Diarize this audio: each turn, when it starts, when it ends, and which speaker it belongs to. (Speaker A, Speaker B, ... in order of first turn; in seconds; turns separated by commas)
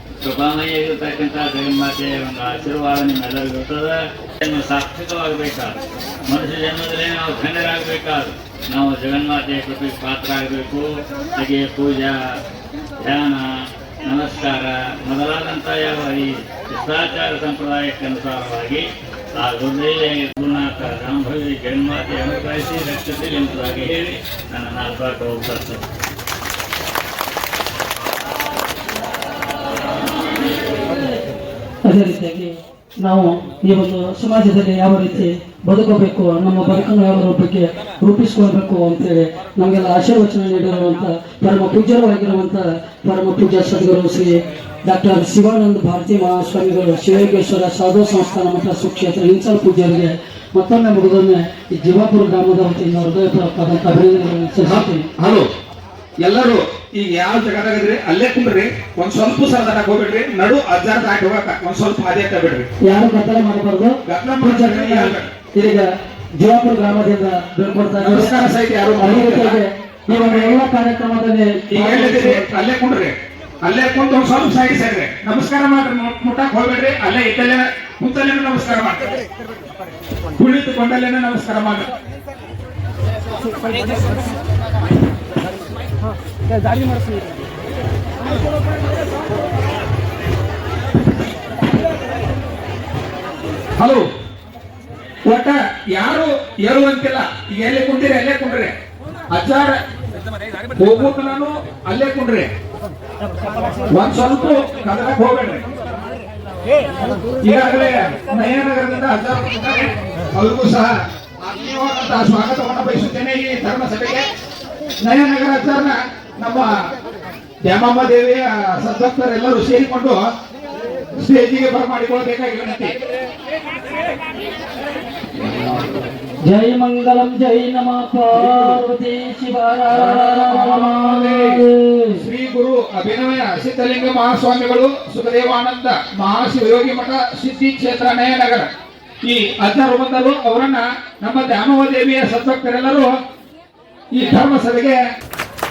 Speaker A: 0.2-12.3, Speaker A: 13.0-13.5, Speaker A: 14.0-25.8, Speaker B: 31.9-55.1, Speaker C: 54.7-55.5, Speaker C: 56.2-62.7, Speaker B: 62.9-68.4, Speaker C: 64.1-65.3, Speaker C: 68.0-70.6, Speaker B: 69.0-72.5, Speaker C: 71.7-79.2, Speaker C: 80.4-81.9, Speaker C: 93.8-94.0, Speaker C: 95.3-98.8, Speaker C: 99.3-99.8, Speaker C: 100.8-102.5, Speaker C: 103.9-105.6, Speaker C: 107.4-114.3, Speaker C: 115.0-116.7, Speaker C: 117.6-120.2, Speaker C: 121.2-123.0, Speaker B: 126.5-132.2, Speaker C: 128.3-128.8, Speaker C: 129.9-131.6, Speaker C: 132.2-138.7, Speaker C: 139.2-143.1, Speaker C: 144.1-145.0